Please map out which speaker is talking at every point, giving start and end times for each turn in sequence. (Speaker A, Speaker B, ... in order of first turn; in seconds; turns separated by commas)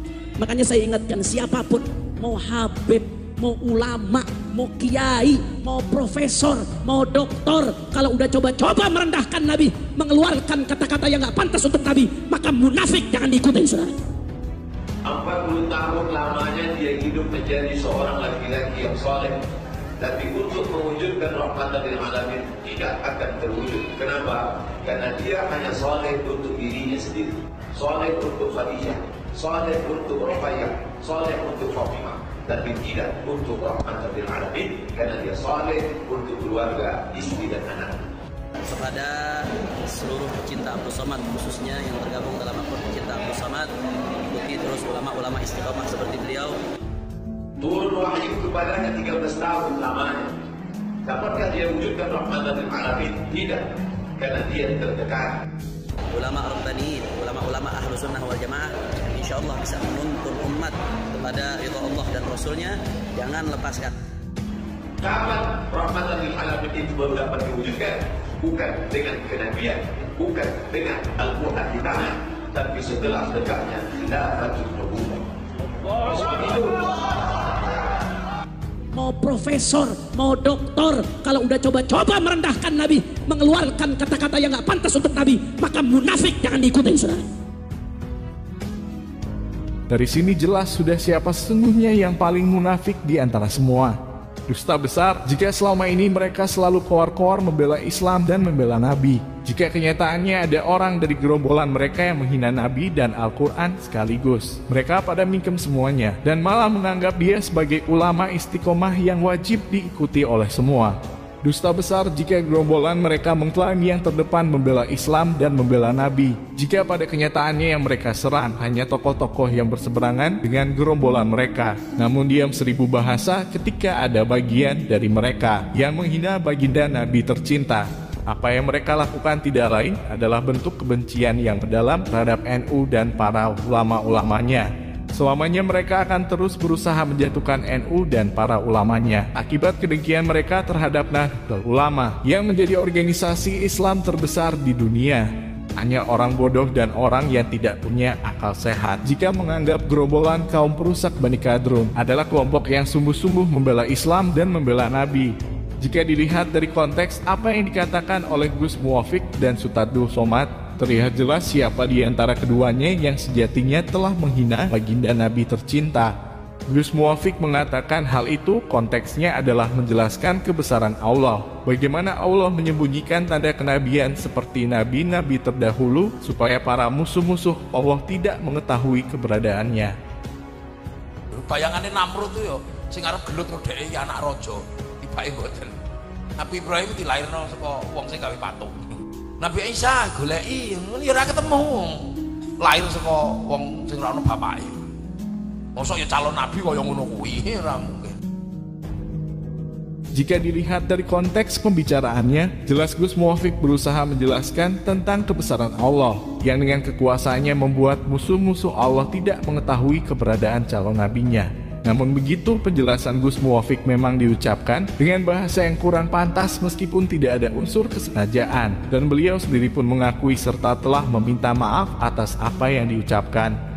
Speaker A: 0.4-14.0, Speaker B: 15.1-19.4, Speaker B: 20.0-38.0, Speaker C: 38.6-43.7, Speaker C: 44.3-46.6, Speaker B: 47.6-50.3, Speaker B: 51.0-55.4, Speaker C: 56.1-64.0, Speaker B: 65.0-75.2, Speaker B: 76.0-77.0, Speaker A: 78.9-87.2, Speaker D: 89.9-166.2, Speaker D: 166.7-180.0, Speaker E: 181.3-185.8, Speaker E: 186.4-194.8, Speaker E: 195.8-198.2, Speaker D: 200.1-223.6